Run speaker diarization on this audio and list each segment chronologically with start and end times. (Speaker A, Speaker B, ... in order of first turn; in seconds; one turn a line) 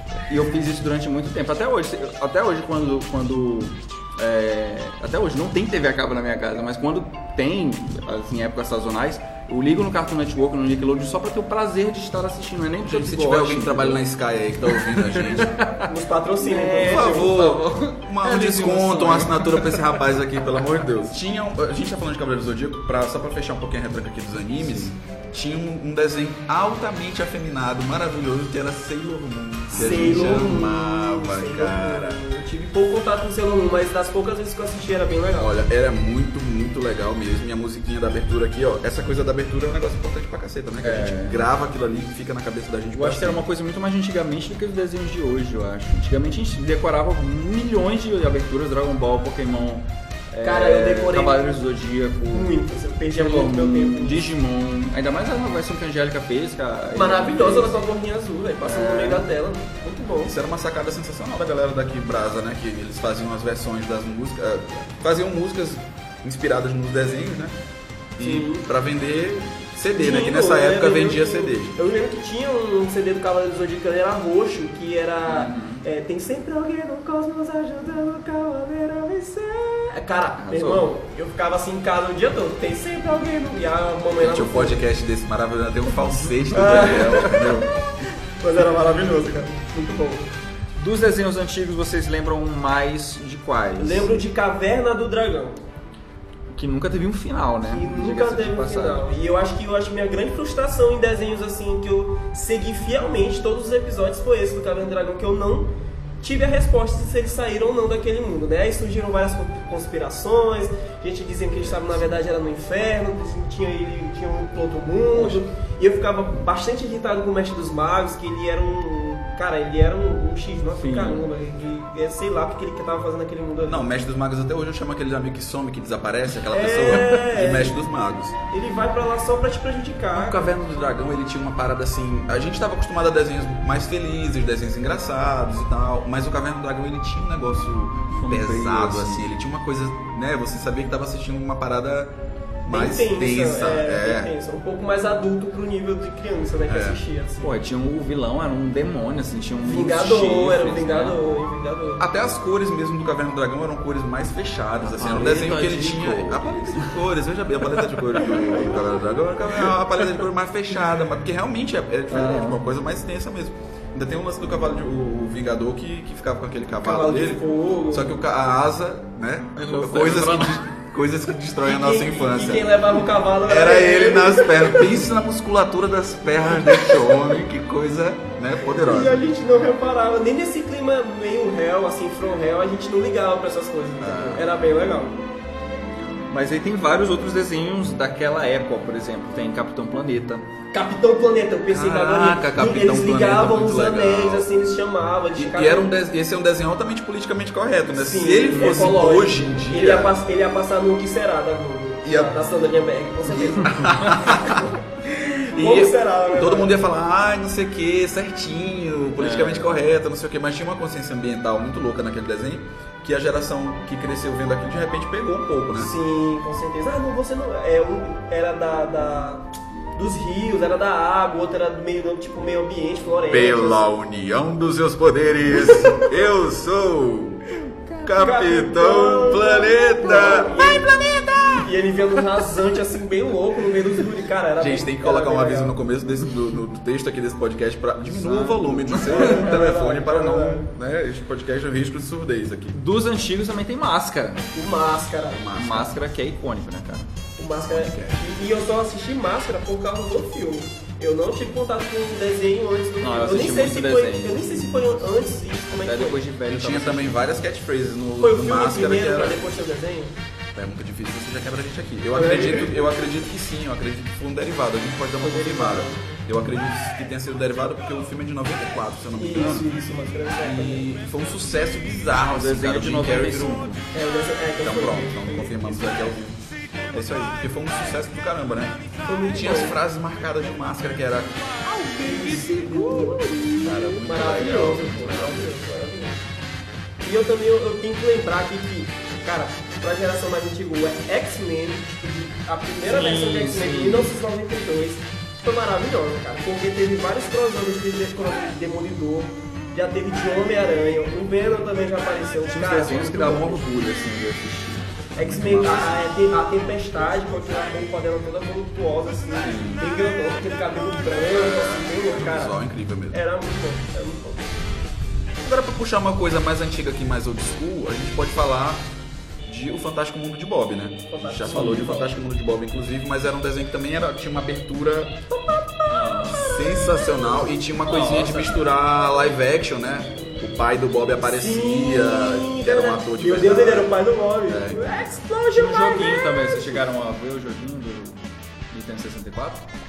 Speaker A: 0.3-14.0
Speaker B: 12.8-15.5
Speaker A: 14.7-20.0
Speaker C: 15.9-17.4
Speaker B: 16.8-32.2
Speaker A: 24.6-24.9
Speaker C: 29.7-35.5
Speaker A: 29.7-30.4
Speaker B: 35.4-43.4
Speaker A: 40.8-41.4
Speaker A: 42.9-52.5
Speaker C: 50.4-51.5
Speaker C: 52.3-54.3
Speaker A: 53.2-57.8
Speaker C: 56.9-60.4
Speaker A: 58.6-59.3
Speaker B: 60.2-67.5
Speaker B: 68.2-71.8
Speaker C: 68.2-68.7
Speaker C: 69.9-84.8
Speaker A: 75.3-75.8
Speaker A: 80.4-80.9
Speaker B: 84.2-87.7
Speaker C: 86.5-87.6
Speaker A: 86.6-87.7
Speaker C: 88.4-90.3
Speaker A: 90.8-94.2
Speaker C: 93.8-95.6
Speaker A: 96.5-99.1
Speaker C: 97.7-123.9
Speaker A: 115.1-115.4
Speaker A: 120.7-121.3
Speaker B: 123.7-128.4
Speaker C: 126.5-127.8
Speaker C: 128.5-130.5
Speaker B: 130.1-142.1
Speaker A: 138.1-139.3
Speaker B: 142.7-144.3
Speaker C: 142.7-147.5
Speaker B: 146.7-147.0
Speaker A: 147.4-151.2
Speaker C: 149.6-152.1
Speaker B: 152.0-172.8
Speaker A: 154.8-157.0
Speaker A: 158.2-158.6
Speaker A: 162.1-162.6
Speaker C: 166.8-168.2
Speaker A: 169.6-170.6
Speaker C: 171.6-175.0
Speaker B: 173.4-179.3
Speaker C: 176.7-177.1
Speaker C: 178.7-185.2
Speaker B: 184.0-184.5
Speaker A: 186.3-190.5
Speaker C: 190.7-195.9
Speaker B: 191.7-194.5
Speaker B: 195.4-200.1
Speaker C: 197.9-204.7
Speaker A: 198.5-198.9
Speaker B: 202.0-202.3
Speaker B: 203.3-204.8
Speaker C: 205.2-206.8
Speaker B: 205.5-215.9
Speaker A: 209.2-209.8
Speaker C: 215.7-223.8
Speaker B: 223.3-231.7
Speaker C: 225.5-226.2
Speaker C: 228.2-235.8
Speaker B: 234.6-242.8
Speaker A: 238.2-239.4
Speaker C: 238.5-240.7
Speaker A: 242.7-244.5
Speaker C: 244.5-245.5
Speaker B: 245.3-246.0
Speaker A: 245.6-247.1
Speaker C: 247.4-256.2
Speaker B: 247.6-248.4
Speaker A: 253.0-254.9
Speaker A: 255.7-257.2
Speaker B: 256.5-259.5
Speaker C: 258.2-260.1
Speaker B: 260.5-269.7
Speaker C: 262.1-262.8
Speaker C: 265.2-266.1
Speaker C: 269.2-270.9
Speaker B: 270.4-273.8
Speaker A: 272.2-273.8
Speaker C: 273.9-276.0
Speaker B: 274.6-285.5
Speaker C: 279.1-279.8
Speaker C: 281.8-286.2
Speaker C: 287.0-303.6
Speaker A: 292.9-294.1
Speaker A: 302.5-304.9
Speaker C: 305.1-312.6
Speaker B: 305.2-306.0
Speaker A: 309.4-309.9
Speaker B: 311.3-313.2
Speaker C: 313.1-314.5
Speaker B: 315.4-318.9
Speaker B: 319.5-325.2
Speaker C: 321.1-322.2
Speaker C: 325.3-325.9
Speaker A: 325.9-326.5
Speaker B: 326.3-333.9
Speaker A: 327.9-328.6
Speaker C: 331.2-336.8
Speaker B: 334.5-335.1
Speaker A: 335.6-339.6